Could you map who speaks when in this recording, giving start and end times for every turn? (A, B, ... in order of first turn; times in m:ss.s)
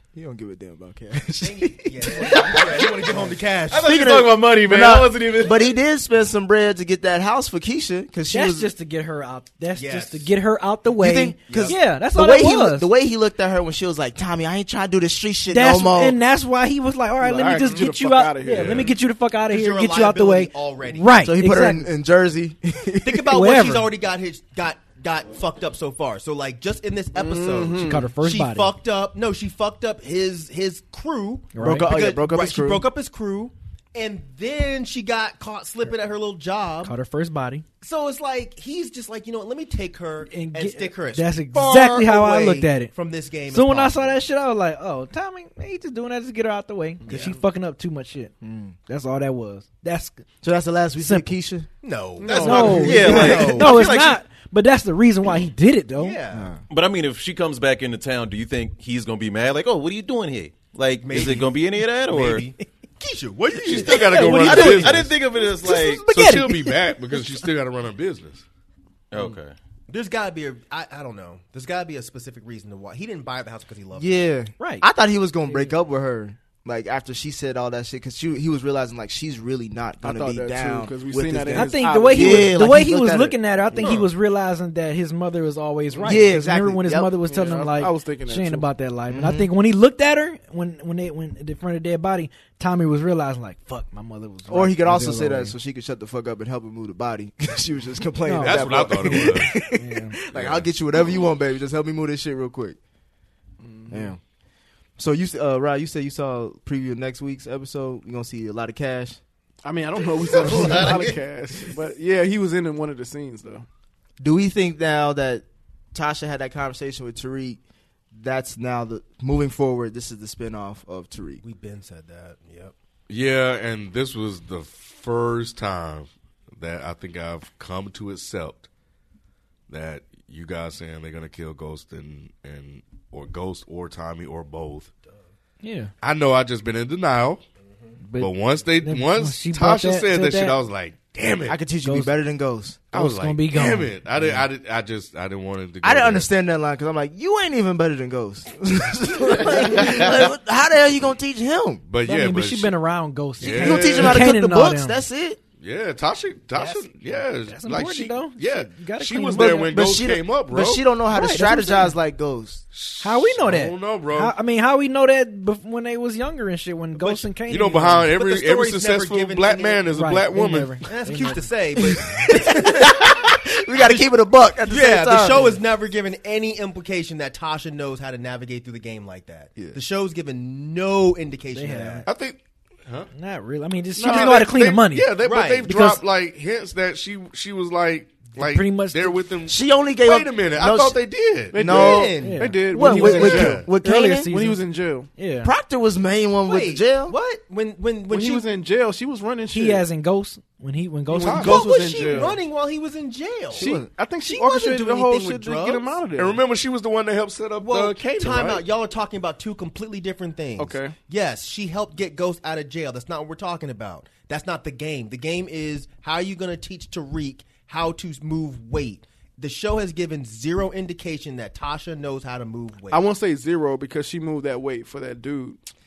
0:00.1-0:03.3 A
0:01.4-0:03.9 B
0:03.7-0:05.7 C
0:03.8-0:08.7 A
0:08.3-0:12.9 D
0:09.7-0:10.3 B
0:11.0-0:16.2 A
0:11.5-0:11.8 B
0:15.5-0:21.9 D
0:17.2-0:18.9 E
0:19.5-0:21.2 B
0:21.2-0:23.3 A
0:23.0-0:36.9 B
0:23.3-0:23.9 D
0:27.1-0:28.1 E
0:27.8-0:28.7 D
0:31.5-0:31.9 D
0:31.6-0:32.8 A
0:36.8-0:37.6 D
0:37.8-0:44.2 B
0:40.3-0:42.9 D
0:43.5-0:48.3 D
0:47.1-0:47.4 B
0:48.4-0:48.7 A
0:48.9-0:50.2 D
0:50.4-0:51.7 A
0:51.0-0:51.3 D
0:51.8-0:53.9 B
0:52.2-0:53.3 E
0:52.3-0:56.2 D
0:52.4-0:54.2 C
0:53.0-0:53.6 A
0:56.0-0:56.5 B
0:56.3-0:56.6 A
0:56.7-1:02.5 C
1:01.0-1:04.9 B
1:03.5-1:05.2 F
1:04.1-1:04.9 D
1:04.3-1:06.0 C
1:05.6-1:07.4 D
1:05.8-1:08.4 F
1:09.1-1:09.5 C
1:09.9-1:14.2 B
1:13.9-1:23.4 A
1:14.6-1:14.8 D
1:20.0-1:22.6 E
1:21.5-1:35.5 D
1:23.8-1:24.1 B
1:26.0-1:27.1 A
1:27.2-1:28.7 E
1:29.1-1:29.5 A
1:34.5-1:42.8 A
1:38.2-1:40.2 D
1:38.4-1:39.5 F
1:40.3-1:40.6 F
1:43.6-1:44.1 E
1:43.9-1:44.2 A
1:45.0-1:49.2 A
1:49.6-1:53.6 E
1:50.2-1:51.1 B
1:50.6-1:51.0 A
1:54.2-1:57.6 A
1:58.1-2:01.4 A
2:01.4-2:02.7 B
2:03.1-2:08.7 F
2:09.7-2:14.9 F
2:15.6-2:15.9 D
2:16.0-2:17.4 F
2:18.0-2:20.6 D
2:18.2-2:21.6 F
2:21.5-2:22.9 A
2:21.8-2:22.1 D
2:22.9-2:26.2 F
2:22.9-2:23.9 D
2:24.2-2:24.4 A
2:25.8-2:31.8 A
2:31.8-2:32.7 F
2:32.0-2:35.0 D
2:33.4-2:34.3 F
2:33.4-2:35.4 A
2:35.6-2:40.8 F
2:37.4-2:39.7 D
2:39.4-2:42.6 A
2:41.1-2:41.9 D
2:42.7-2:44.3 F
2:43.0-2:48.1 D
2:47.4-2:50.8 F
2:48.1-2:49.9 B
2:49.9-2:51.5 D
2:50.8-2:54.0 B
2:51.8-2:55.5 A
2:54.7-3:02.0 B
3:01.5-3:02.1 D
3:02.0-3:03.1 F
3:03.1-3:05.1 D
3:04.0-3:11.6 F
3:05.2-3:05.7 B
3:05.7-3:06.0 D
3:08.4-3:09.3 D
3:09.5-3:11.0 A
3:11.5-3:13.6 E
3:11.5-3:12.1 A
3:11.6-3:12.5 B
3:12.2-3:14.6 D
3:12.7-3:14.3 A
3:13.3-3:13.7 F
3:14.3-3:15.1 E
3:15.2-3:15.5 D
3:15.4-3:17.2 A
3:16.4-3:18.5 B
3:18.1-3:19.8 E
3:19.5-3:21.6 D
3:21.1-3:22.4 E
3:21.2-3:21.6 F
3:21.4-3:23.7 B
3:23.5-3:26.4 E
3:23.6-3:23.9 A
3:24.2-3:26.0 B
3:26.2-3:28.6 F
3:27.6-3:43.0 B
3:30.6-3:30.9 E
3:42.9-3:45.6 E